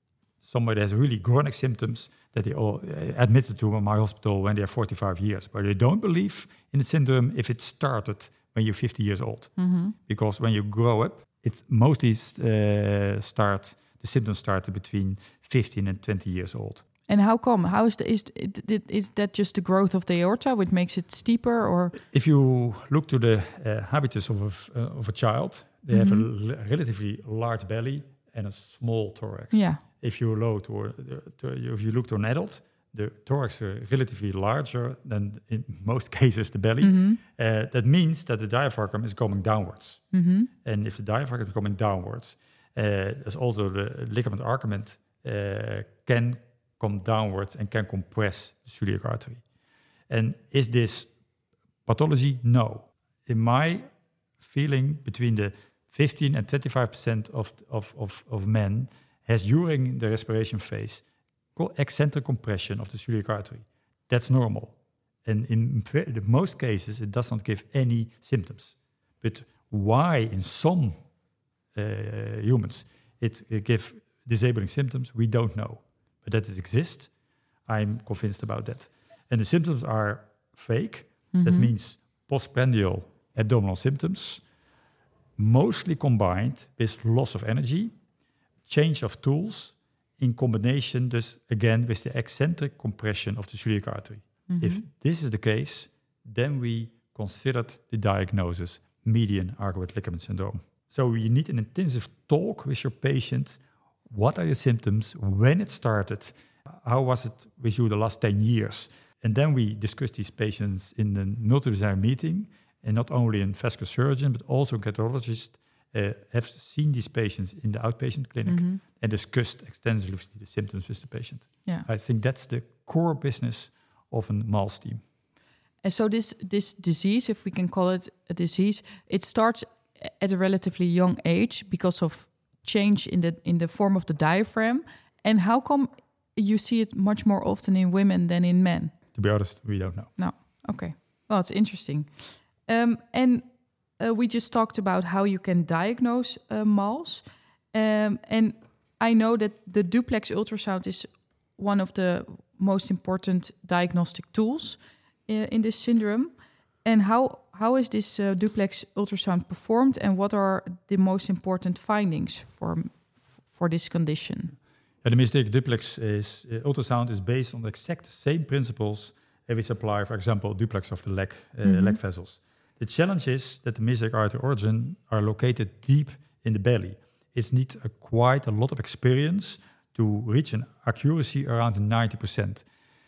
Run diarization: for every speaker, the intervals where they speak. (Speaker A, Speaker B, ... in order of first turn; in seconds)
Speaker A: 0.4-9.5, 10.1-16.8, 22.1-40.0, 40.6-49.4, 50.1-51.1, 51.9-53.9, 54.4-61.0, 61.6-71.0, 71.8-77.1, 77.7-84.4, 85.4-87.9, 88.7-125.0, 139.2-140.1, 165.0-182.7
Speaker B: 9.6-10.0, 17.1-21.9, 25.9-26.3, 29.5-29.8, 36.8-37.2, 40.1-40.5, 81.3-81.7, 94.5-94.8, 118.5-118.8, 125.8-138.9, 140.2-164.6, 171.6-172.0